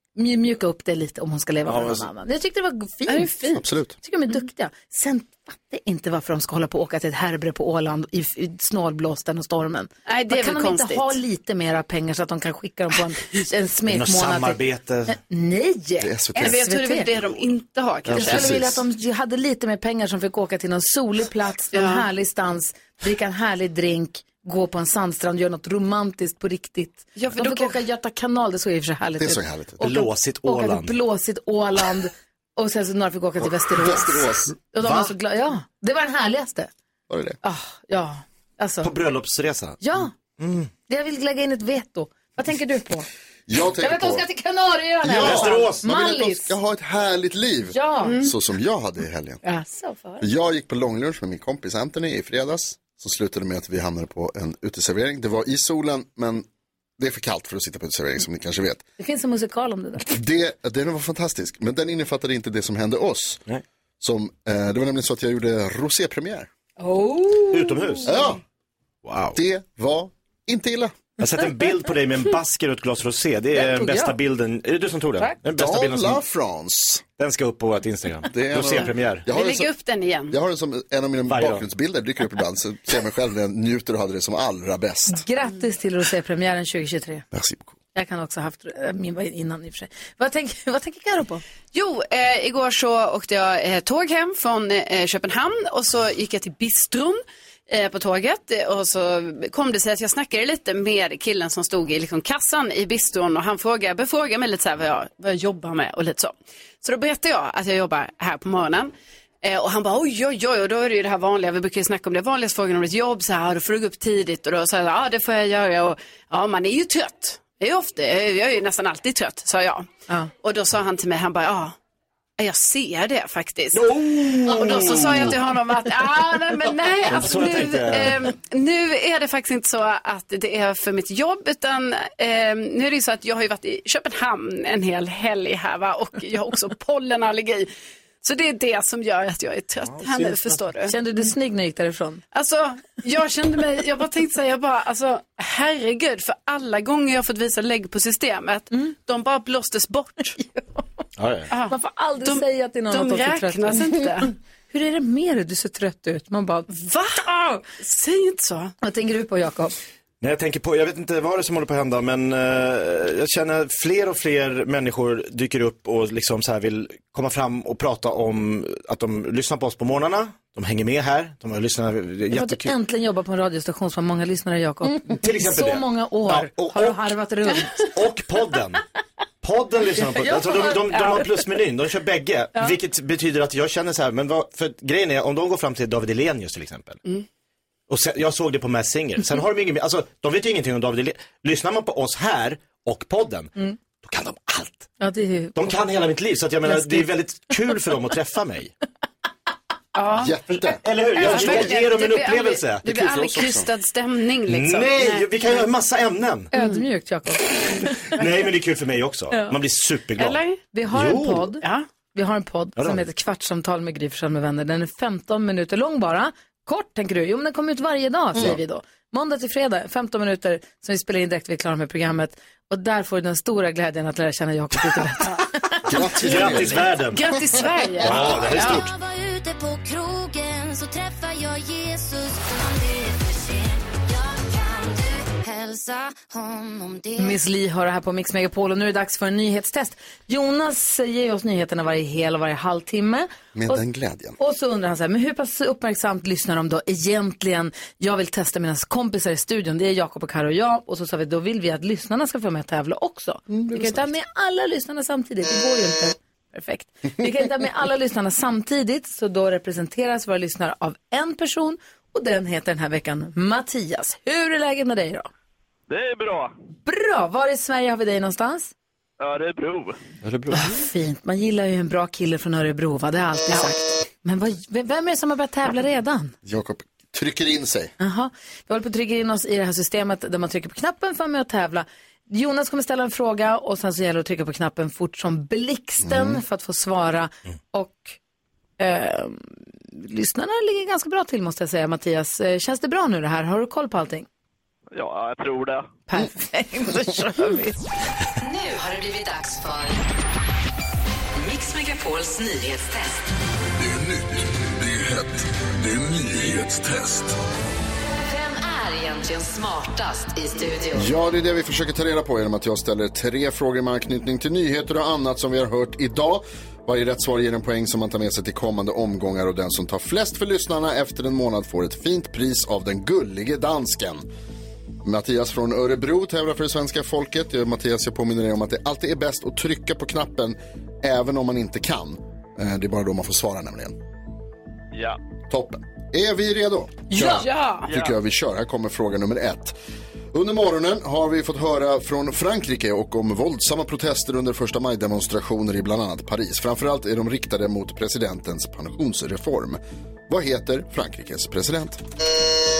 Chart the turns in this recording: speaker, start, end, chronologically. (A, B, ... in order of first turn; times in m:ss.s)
0:00.2-0:17.1 A
0:01.6-0:02.1 B
0:03.5-0:03.9 C
0:10.1-0:11.2 D
0:13.9-0:15.2 B
0:16.0-0:16.6 C
0:16.4-0:18.6 D
0:18.1-0:18.7 C
0:18.1-0:36.7 A
0:18.2-0:18.6 B
0:21.7-0:22.0 D
0:27.2-0:27.8 D
0:29.2-0:29.8 C
0:29.8-0:31.0 B
0:33.4-0:34.5 C
0:34.8-0:35.1 B
0:37.1-0:37.4 C
0:37.4-0:38.9 A
0:38.8-0:39.8 B
0:39.8-0:40.1 A
0:40.4-0:40.7 B
0:40.9-0:43.1 A
0:43.5-0:44.2 C
0:43.8-0:46.5 A
0:45.0-0:49.4 C
0:45.1-0:45.8 B
0:47.7-0:48.3 A
0:48.0-0:48.3 D
0:49.4-0:50.2 A
0:50.2-0:56.4 C
0:57.0-0:58.8 C
0:59.0-1:00.1 A
1:00.0-1:03.4 C
1:04.0-1:06.5 C
1:06.8-1:08.1 A
1:07.5-1:08.1 B
1:08.0-1:08.4 C
1:09.0-1:09.4 B
1:09.3-1:11.0 C
1:11.2-1:16.2 B
1:13.5-1:14.2 A
1:15.5-1:17.0 C
1:17.2-1:19.3 B
1:18.3-1:19.7 C
1:19.3-1:20.3 D
1:20.3-1:25.2 C
1:21.3-1:21.6 B
1:25.1-1:27.2 A
1:27.3-1:27.8 C
1:27.9-1:31.4 A
1:31.7-1:48.9 D
1:49.4-1:59.9 D
2:00.4-2:01.7 D
2:02.4-2:17.7 D
2:03.7-2:05.4 B
2:07.0-2:08.3 B
2:18.2-2:20.9 D
2:19.9-2:20.5 B
2:20.9-2:22.2 A
2:22.3-2:30.4 D
2:31.2-2:31.5 B
2:31.5-2:34.3 D
2:31.7-2:36.7 A
2:36.7-2:38.7 D
2:38.8-2:39.8 A
2:40.2-2:52.7 B
2:52.3-2:57.9 A
2:55.0-2:57.0 B
2:57.8-2:58.8 B
2:59.4-3:07.0 B
3:00.2-3:01.2 A
3:07.9-3:14.9 B
3:15.0-3:15.7 A
3:15.5-3:18.7 B
3:16.6-3:17.1 A
3:19.9-3:20.3 D
3:20.2-3:21.7 C
3:20.6-3:23.1 B
3:21.1-3:25.6 D
3:22.9-3:23.6 C
3:24.5-3:26.5 B
3:26.5-3:28.0 A
3:26.5-3:26.8 D
3:28.0-3:31.5 B
3:30.2-3:30.6 D
3:30.7-3:31.6 A
3:32.1-3:46.2 A
3:32.8-3:33.0 B
3:45.9-3:46.9 C
3:46.2-3:47.3 B
3:47.1-3:48.8 D
3:48.0-3:49.0 B
3:48.2-3:57.4 E
3:57.2-4:03.8 A
4:03.5-4:04.4 C
4:04.4-4:25.3 A
4:13.5-4:14.1 C
4:25.9-4:26.5 F
4:26.8-4:28.7 A
4:29.2-4:30.0 F
4:30.2-4:30.6 B
4:30.5-4:36.3 A
4:36.4-4:37.9 C
4:38.0-4:48.2 A
4:46.0-4:46.4 C
4:48.8-4:54.3 A
4:54.9-4:55.9 F
4:56.1-4:57.8 A
4:58.4-5:00.0 G
5:01.4-5:03.2 G
5:03.8-5:07.4 H
5:08.0-5:11.1 G
5:11.0-5:24.2 C
5:25.0-5:34.0 C
5:34.9-5:35.2 F
5:35.5-5:39.8 C
5:37.1-5:37.4 A
5:37.1-5:37.9 D
5:37.9-5:38.2 F
5:40.3-5:52.0 C